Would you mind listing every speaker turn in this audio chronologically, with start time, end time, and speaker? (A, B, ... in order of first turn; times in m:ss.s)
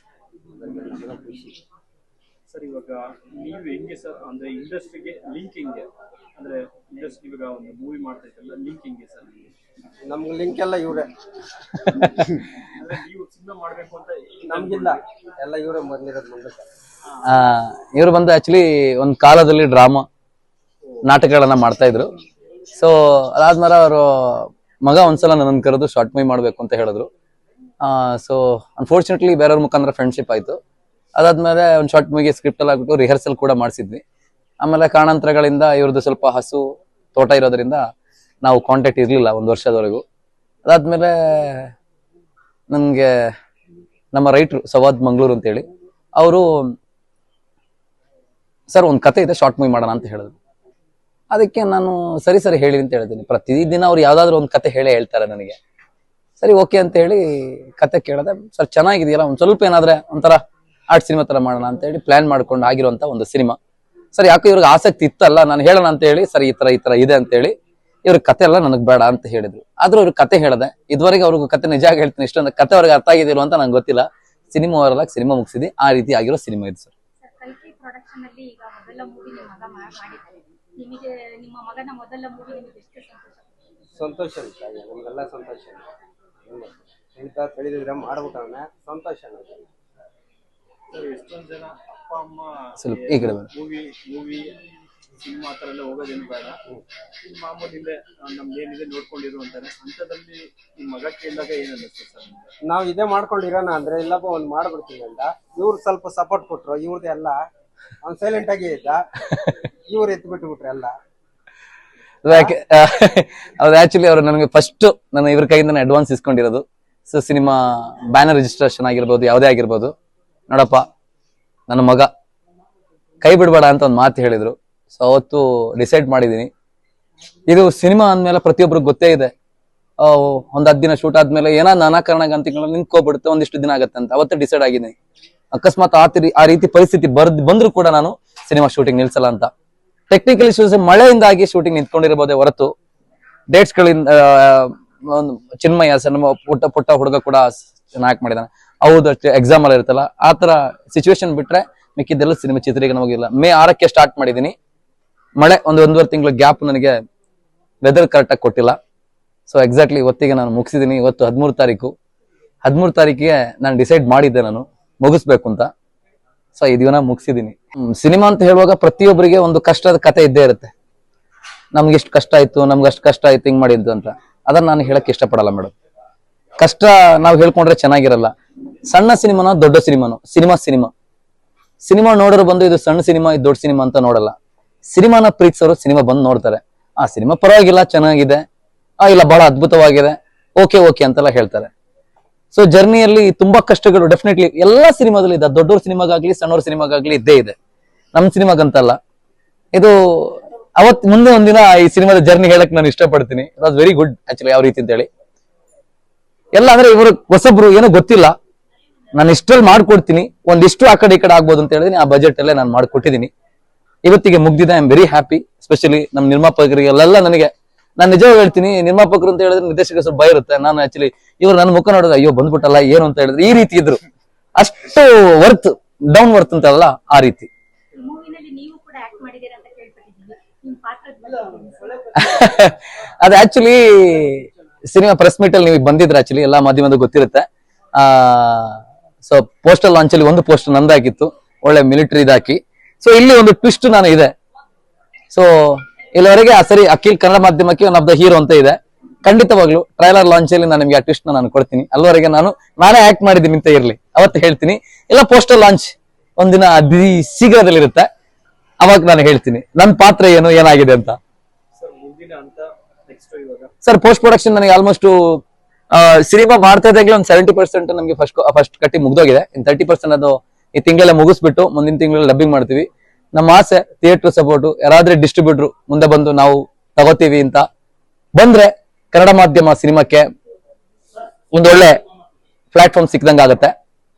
0:00.6-0:01.6 A
0:02.5-0:09.5 B
0:10.0-0:11.1 A
0:11.9-0:12.4 A
0:12.0-0:15.0 B
0:14.5-0:16.7 A
0:17.2-0:20.0 C
0:21.0-0:22.1 C
0:22.8-0:27.1 C
0:27.8-0:30.6 C
0:31.2-0:34.0 C
0:34.6-0:36.6 C
0:37.1-0:37.8 C
0:38.4-0:40.0 C
0:40.7-0:41.7 C
0:42.7-0:43.3 C
0:44.1-0:46.7 C
0:48.7-0:50.3 C
0:51.3-0:55.6 C
0:56.4-1:03.6 C
1:04.1-1:07.5 C
1:08.0-1:16.9 C
1:17.2-1:23.5 D
1:24.0-1:25.8 A
1:26.5-1:29.6 A
1:30.9-1:34.5 B
1:32.8-1:33.5 C
1:35.2-1:36.6 B
1:37.2-1:42.4 B
1:42.7-1:47.4 A
1:48.0-1:49.1 A
1:49.9-1:50.9 A
1:52.2-1:59.9 C
1:52.3-1:52.5 A
2:00.5-2:00.8 C
2:01.7-2:02.1 C
2:03.2-2:06.5 C
2:07.5-2:09.3 C
2:10.0-2:14.9 C
2:15.5-2:19.5 C
2:20.1-2:22.7 C
2:23.5-2:34.5 C
2:35.4-2:37.0 C
2:37.8-2:38.8 C
2:39.5-2:41.9 C
2:42.6-2:45.7 C
2:46.6-2:50.7 C
2:51.7-2:55.7 C
2:56.6-2:58.3 C
2:58.9-3:00.9 C
3:01.8-3:04.3 C
3:04.9-3:08.4 C
3:09.0-3:11.7 C
3:12.5-3:17.6 C
3:18.1-3:19.0 C
3:19.7-3:25.1 C
3:26.5-3:28.3 C
3:29.2-3:33.3 C
3:34.0-3:44.0 C
3:44.6-3:47.5 C
3:48.0-3:52.0 D
3:52.2-3:57.4 C
3:58.0-4:04.3 C
4:05.3-4:18.1 C
4:18.8-4:21.2 C
4:21.7-4:23.7 B
4:23.8-4:37.6 C
4:38.4-4:40.3 C
4:41.5-4:42.0 C
4:42.7-4:43.7 C